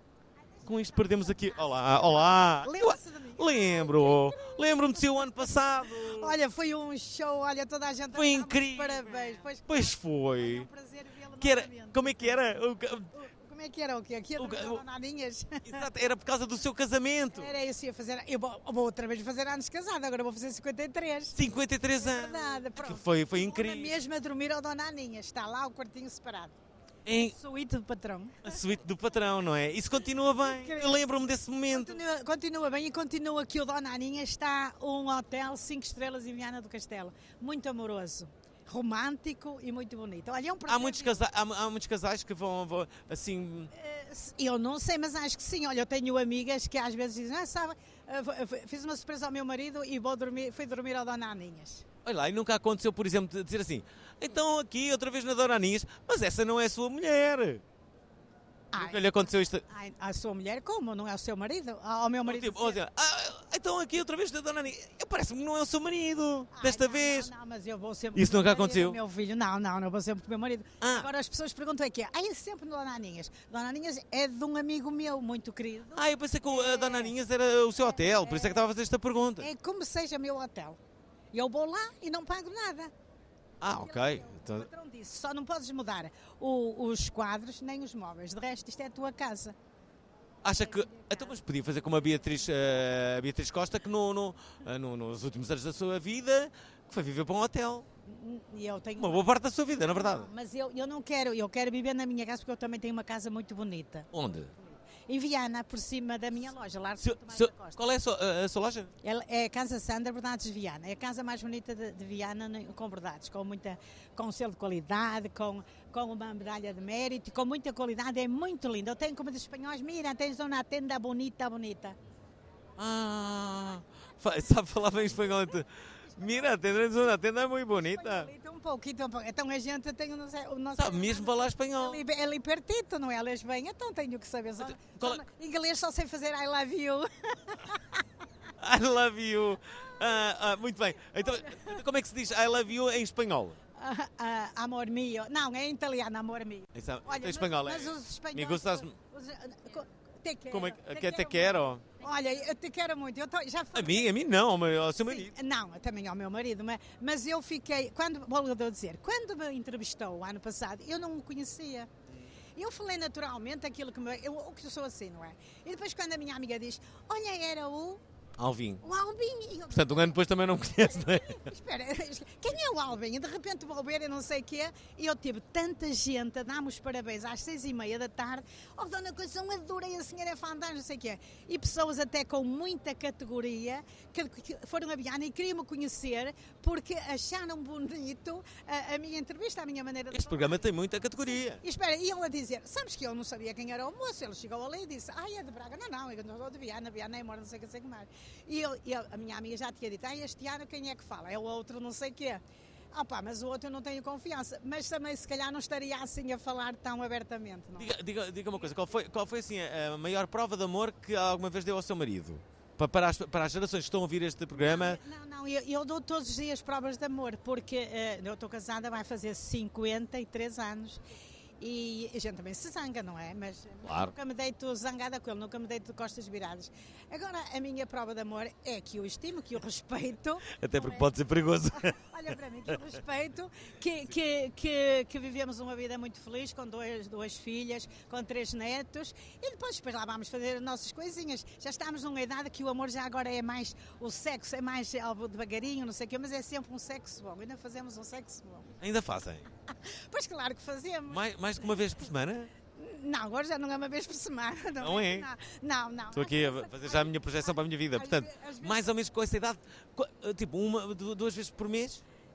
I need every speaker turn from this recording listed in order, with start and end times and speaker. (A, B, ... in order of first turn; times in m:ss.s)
0:00.6-0:06.4 A
0:02.6-0:05.3 B
0:06.1-0:12.4 B
0:08.1-0:10.7 A
0:11.4-0:13.1 A
0:13.2-0:15.6 B
0:14.4-0:14.8 A
0:15.7-0:17.6 A
0:17.4-0:21.4 B
0:21.3-0:24.0 A
0:22.0-0:26.5 B
0:27.1-0:27.4 A
0:27.3-0:28.6 B
0:28.4-0:32.0 A
0:30.4-0:31.0 B
0:31.7-0:41.2 B
0:40.7-0:43.7 A
0:43.8-0:51.8 B
0:52.0-0:57.6 A
0:58.7-1:02.8 B
0:58.7-0:59.6 A
1:02.2-1:07.3 A
1:06.5-1:17.1 B
1:08.1-1:09.0 A
1:10.8-1:11.1 A
1:15.9-1:19.5 A
1:17.9-1:18.6 B
1:19.4-1:20.8 B
1:21.3-1:22.9 B
1:23.6-1:24.7 A
1:23.7-1:29.6 B
1:30.4-1:37.9 A
1:30.6-1:31.3 B
1:38.1-1:39.3 B
1:39.0-1:40.3 A
1:39.8-1:44.1 B
1:44.1-1:44.5 A
1:44.6-1:47.8 B
1:47.0-1:48.9 A
1:49.0-2:02.0 B
2:02.8-2:08.3 A
2:07.8-2:17.6 B
2:10.8-2:12.0 A
2:14.6-2:15.2 A
2:18.6-2:23.6 A
2:21.2-2:21.8 B
2:23.8-2:34.1 B
2:26.7-2:29.0 A
2:30.5-2:32.0 A
2:33.7-2:35.3 A
2:35.0-2:41.9 B
2:42.6-2:48.0 B
2:48.4-2:48.8 A
2:48.8-2:50.2 B
2:49.7-2:51.4 A
2:50.8-3:10.6 B
3:10.1-3:11.6 A
3:11.2-3:22.4 B
3:22.9-3:27.9 B
3:27.8-3:35.0 A
3:34.5-3:41.0 B
3:41.6-3:51.1 B
3:43.8-3:44.2 A
3:50.5-3:51.9 A
3:51.9-4:08.7 B
4:08.8-4:09.4 A
4:10.1-4:11.7 B
4:11.1-4:12.5 A
4:12.8-4:18.8 B
4:14.8-4:15.3 A
4:16.1-4:22.0 A